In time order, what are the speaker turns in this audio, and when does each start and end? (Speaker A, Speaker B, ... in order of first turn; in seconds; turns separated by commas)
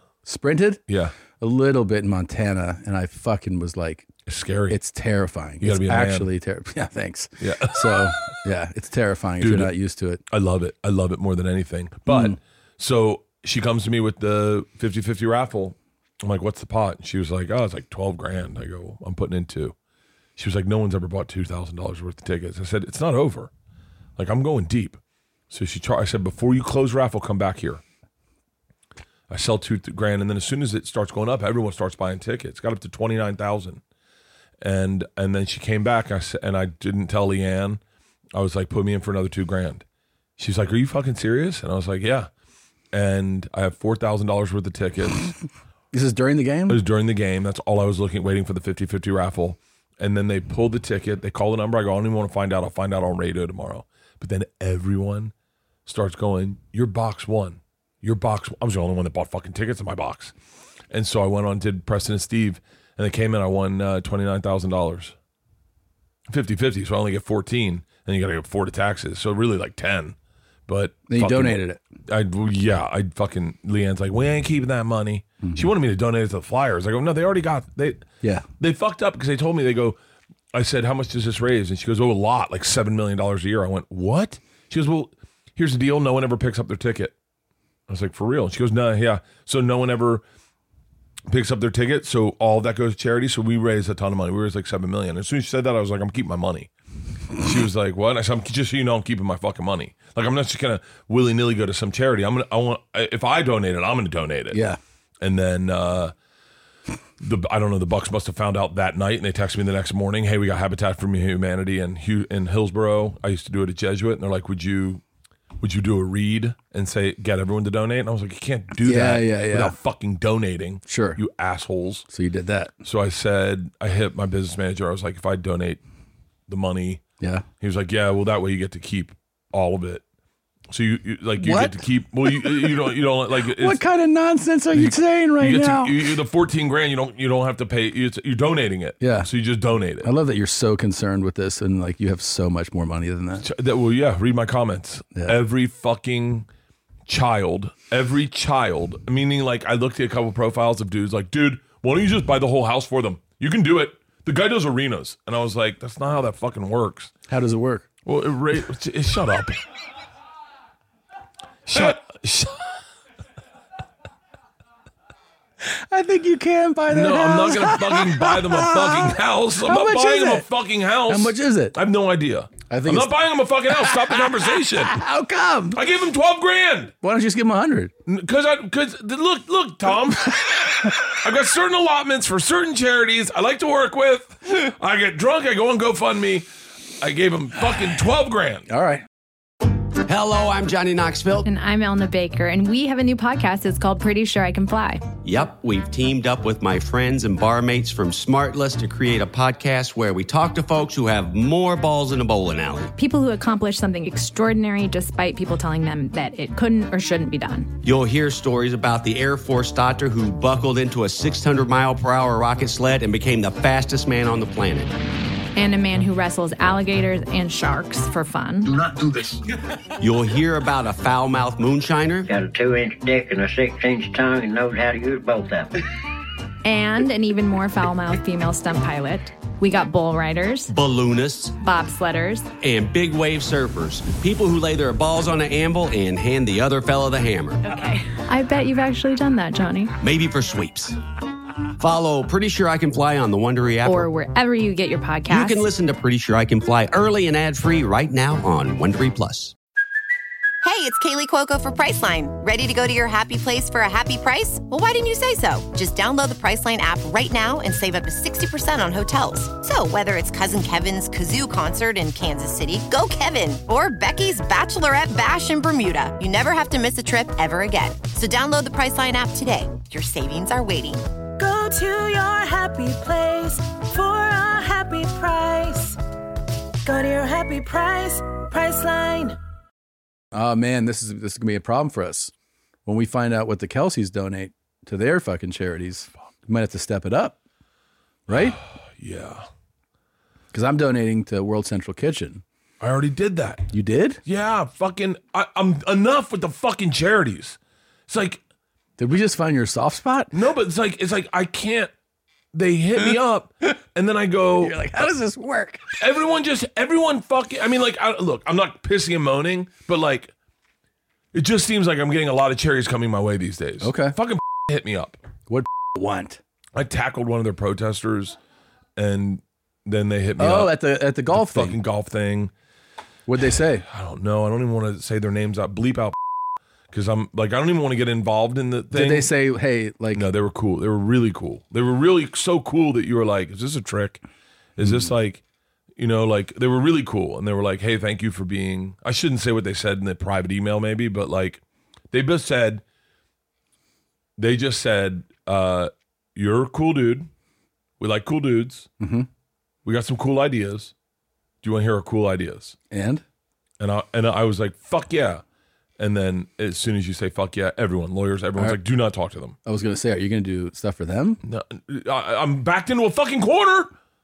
Speaker A: 0.2-0.8, Speaker B: 0.9-1.1, Speaker A: 1.4-4.1, Speaker B: 4.3-4.8, Speaker A: 4.7-10.2, Speaker B: 5.6-6.3, Speaker B: 7.4-8.3, Speaker B: 9.4-9.7, Speaker B: 10.3-19.8, Speaker A: 12.1-12.4, Speaker B: 20.4-23.5, Speaker B: 24.2-27.8, Speaker B: 29.3-33.8, Speaker B: 34.6-37.8, Speaker B: 38.3-39.8, Speaker B: 40.4-42.3, Speaker B: 42.9-45.3, Speaker A: 45.9-46.8, Speaker B: 46.7-55.3, Speaker B: 55.9-60.3, Speaker B: 60.9-65.2, Speaker B: 66.3-70.2, Speaker B: 70.7-78.1, Speaker A: 71.1-71.8, Speaker A: 75.4-75.7, Speaker A: 78.2-78.5, Speaker B: 78.6-80.0, Speaker B: 80.5-87.1, Speaker B: 87.9-90.2, Speaker B: 91.3-96.7, Speaker B: 97.4-104.6, Speaker A: 104.5-104.8, Speaker B: 105.2-106.1, Speaker B: 107.2-115.0, Speaker B: 115.6-122.1, Speaker A: 118.8-119.8, Speaker A: 120.9-121.2, Speaker A: 122.1-122.7, Speaker B: 122.8-125.8, Speaker B: 126.5-127.0, Speaker A: 127.2-127.5, Speaker B: 127.6-130.0, Speaker B: 130.7-133.8, Speaker A: 131.4-132.8, Speaker A: 133.6-136.0, Speaker B: 134.7-140.1, Speaker A: 139.0-139.3, Speaker A: 140.0-143.4, Speaker B: 143.4-146.5, Speaker B: 147.1-157.1, Speaker A: 157.3-157.9, Speaker B: 158.1-159.6, Speaker B: 161.7-162.7, Speaker A: 165.6-170.5, Speaker B: 166.9-175.0, Speaker A: 171.1-171.8, Speaker A: 172.7-173.1, Speaker A: 173.7-175.8, Speaker B: 175.7-176.9, Speaker A: 177.0-177.9, Speaker B: 178.1-186.5, Speaker B: 187.0-188.7, Speaker A: 188.7-189.1, Speaker C: 190.0-191.5, Speaker D: 191.4-195.0, Speaker C: 195.2-202.9, Speaker D: 203.0-207.7, Speaker C: 207.8-214.9, Speaker D: 215.6-218.8, Speaker C: 220.0-222.3, Speaker E: 222.3-225.7, Speaker D: 226.6-230.7, Speaker C: 230.7-231.6, Speaker D: 231.6-232.5, Speaker C: 232.6-237.7, Speaker D: 237.6-239.9, Speaker C: 240.0-241.0, Speaker C: 241.8-244.1, Speaker D: 243.8-245.7, Speaker C: 245.3-249.5, Speaker F: 250.6-271.0, Speaker G: 271.4-276.0, Speaker G: 276.9-279.4, Speaker A: 280.3-282.3, Speaker A: 282.9-287.4, Speaker A: 288.3-288.6, Speaker B: 288.3-289.5, Speaker A: 290.5-292.4, Speaker B: 292.8-293.7, Speaker A: 293.7-294.2, Speaker B: 294.2-298.4, Speaker A: 299.0-300.3, Speaker B: 300.3-301.9, Speaker B: 302.5-305.1, Speaker A: 304.6-305.9, Speaker B: 306.0-310.3, Speaker B: 311.3-315.2, Speaker A: 313.8-314.2, Speaker A: 315.5-316.4, Speaker B: 316.7-318.4, Speaker B: 319.0-320.8, Speaker A: 320.4-321.8, Speaker B: 321.3-322.5, Speaker A: 323.3-323.9, Speaker B: 323.8-326.2, Speaker B: 326.9-329.3, Speaker A: 328.9-330.2, Speaker B: 330.1-334.2, Speaker B: 334.8-335.4, Speaker A: 334.8-335.1, Speaker B: 336.0-342.8, Speaker B: 344.4-347.3, Speaker B: 348.0-348.9, Speaker A: 349.0-349.3, Speaker B: 349.9-350.9, Speaker B: 351.6-352.8, Speaker A: 352.9-353.2, Speaker B: 353.8-355.4, Speaker B: 356.0-359.6, Speaker A: 359.6-361.4, Speaker B: 361.4-363.9